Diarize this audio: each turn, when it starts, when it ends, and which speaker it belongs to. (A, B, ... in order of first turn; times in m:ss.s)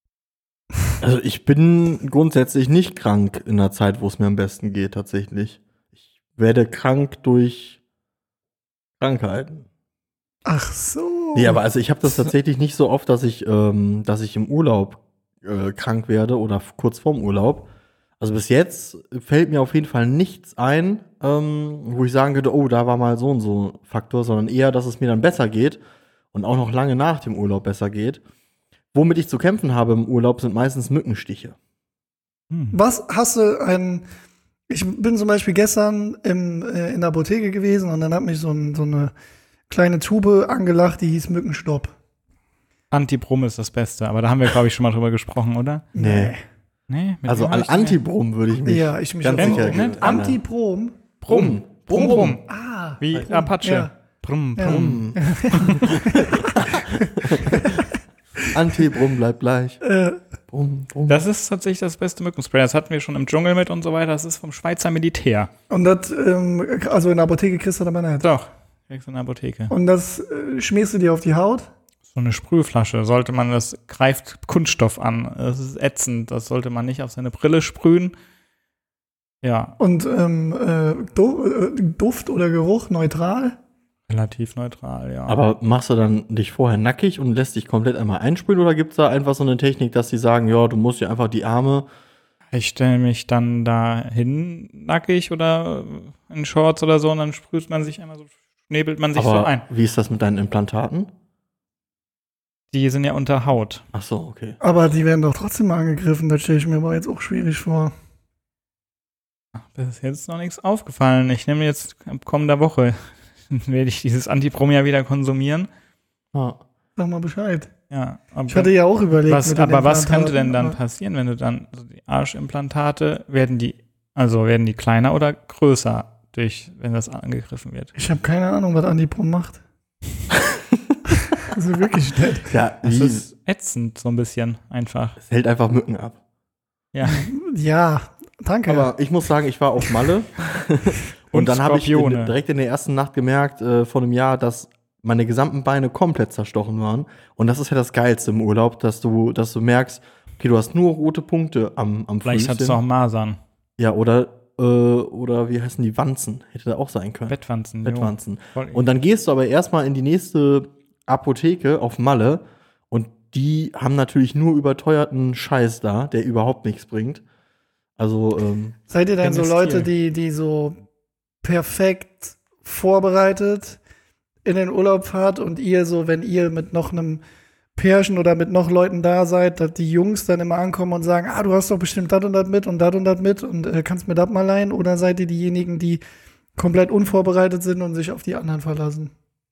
0:01.0-0:05.6 A
0:06.3-0:07.8 A
0:09.0-0:09.7 A
0:10.4-0:11.6 B
0:11.3-0:17.7 A
0:18.2-0:25.8 A
0:26.3-0:28.2 A
0:28.9-0:31.6 A
0:32.5-0:32.8 C
0:32.7-0:34.0 B
0:34.7-0:39.1 B
0:39.7-0:41.9 B
0:42.9-0:45.9 C
0:45.9-0:46.4 B
0:46.0-0:46.3 A
0:46.9-0:48.0 C
0:47.3-0:50.4 A
0:48.6-0:51.0 B
0:49.4-0:50.2 C
0:51.2-0:52.4 C
0:51.3-0:52.4 A
0:51.9-0:53.9 B
0:53.0-0:56.0 C
0:54.6-0:57.8 B
0:54.6-0:57.8 A
0:58.5-0:59.8 A
0:59.8-1:00.2 B
1:00.5-1:01.2 A
1:01.1-1:05.5 C
1:05.7-1:08.2 B
1:08.2-1:09.7 C
1:09.7-1:11.7 B
1:12.1-1:18.1 C
1:19.4-1:19.7 C
1:19.8-1:23.6 B
1:24.1-1:25.4 C
1:25.3-1:31.9 A
1:32.5-1:39.6 C
1:39.2-1:41.1 A
1:42.7-1:43.8 C
1:43.9-1:44.6 A
1:44.6-1:47.9 B
1:49.6-1:55.7 C
1:56.3-1:56.6 A
1:57.0-1:57.7 B
1:57.9-1:58.7 C
1:58.5-2:00.8 B
1:59.2-2:07.9 C
2:07.9-2:09.6 B
2:10.3-2:11.0 A
2:11.4-2:12.5 B
2:12.5-2:13.2 A
2:12.8-2:15.2 C
2:15.2-2:16.2 A
2:16.9-2:17.3 C
2:17.0-2:18.9 B
2:18.7-2:32.8 A
2:21.3-2:22.3 C
2:32.2-2:33.4 C
2:33.8-2:47.2 A
2:37.3-2:38.8 C
2:48.0-2:48.8 A
2:48.9-2:50.8 B
2:49.2-2:49.9 C
2:51.4-2:53.8 B
2:54.4-2:57.2 B
2:57.8-3:06.0 B
3:06.6-3:09.1 B